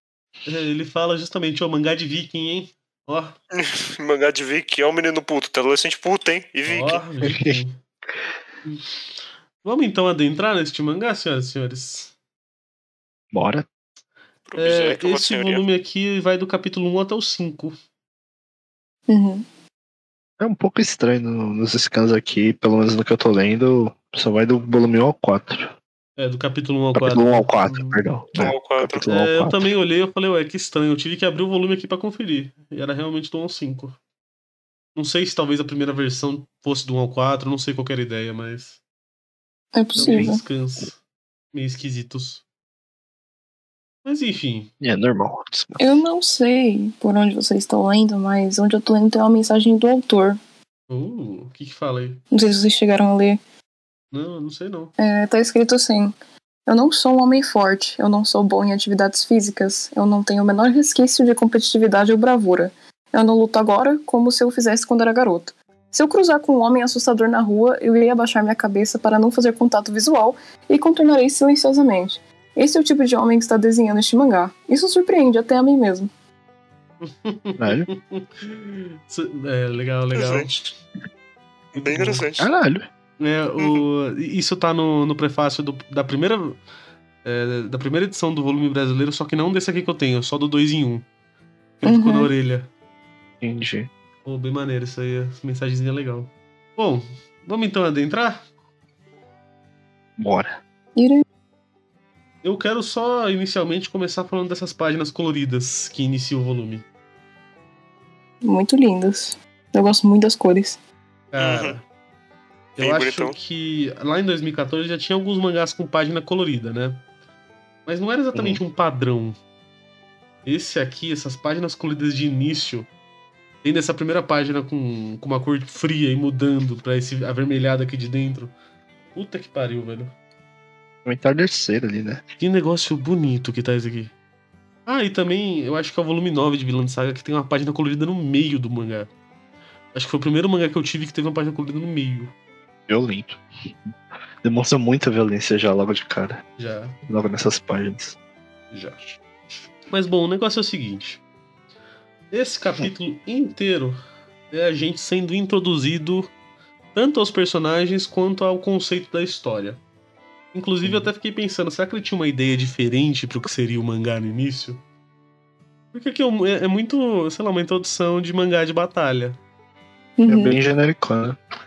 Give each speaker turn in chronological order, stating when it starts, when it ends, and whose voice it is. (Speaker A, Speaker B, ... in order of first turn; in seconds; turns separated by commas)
Speaker A: 0.5-3.4, Speaker B: 3.5-7.0, Speaker A: 6.7-7.8, Speaker C: 7.2-7.6, Speaker A: 9.6-12.1, Speaker C: 13.3-13.7, Speaker B: 14.5-15.6, Speaker A: 14.6-17.8, Speaker D: 19.1-19.4, Speaker C: 20.4-25.7, Speaker A: 26.2-28.0, Speaker C: 26.9-29.7, Speaker B: 28.4-29.0, Speaker A: 29.1-34.0, Speaker A: 35.0-38.8, Speaker D: 39.7-40.4, Speaker A: 39.9-41.0, Speaker C: 40.0-40.4, Speaker A: 41.5-42.4, Speaker A: 44.0-44.7, Speaker C: 44.8-46.0, Speaker D: 45.8-50.4, Speaker A: 50.9-52.2, Speaker D: 52.3-53.4, Speaker A: 54.1-54.9, Speaker D: 55.0-56.1, Speaker D: 56.7-76.1, Speaker A: 77.0-80.6, Speaker C: 77.6-77.9, Speaker B: 80.1-80.6, Speaker B: 81.7-82.5, Speaker A: 81.8-82.2, Speaker C: 82.4-82.9, Speaker A: 83.2-86.6, Speaker A: 87.2-91.0, Speaker A: 91.8-92.7, Speaker D: 91.8-92.3, Speaker C: 93.4-93.9, Speaker A: 94.2-98.4, Speaker C: 100.2-100.6, Speaker D: 101.0-101.2, Speaker A: 102.4-106.8, Speaker D: 108.4-110.8, Speaker A: 111.3-111.8, Speaker B: 111.4-111.7, Speaker A: 112.8-117.0, Speaker B: 112.8-113.3, Speaker A: 117.8-119.4, Speaker C: 118.3-118.6, Speaker A: 120.4-122.9, Speaker A: 123.6-128.5, Speaker A: 129.1-130.1, Speaker C: 131.0-132.2, Speaker A: 132.4-134.1, Speaker A: 134.8-139.1, Speaker A: 139.9-142.3, Speaker C: 142.9-146.4, Speaker A: 146.6-147.0, Speaker C: 147.1-148.2, Speaker A: 148.7-149.0, Speaker A: 149.9-151.2, Speaker A: 152.3-154.0, Speaker A: 154.5-156.3, Speaker A: 156.9-159.8, Speaker A: 160.5-164.8, Speaker C: 160.8-161.1, Speaker A: 165.9-169.4, Speaker D: 170.2-170.6, Speaker C: 170.3-171.4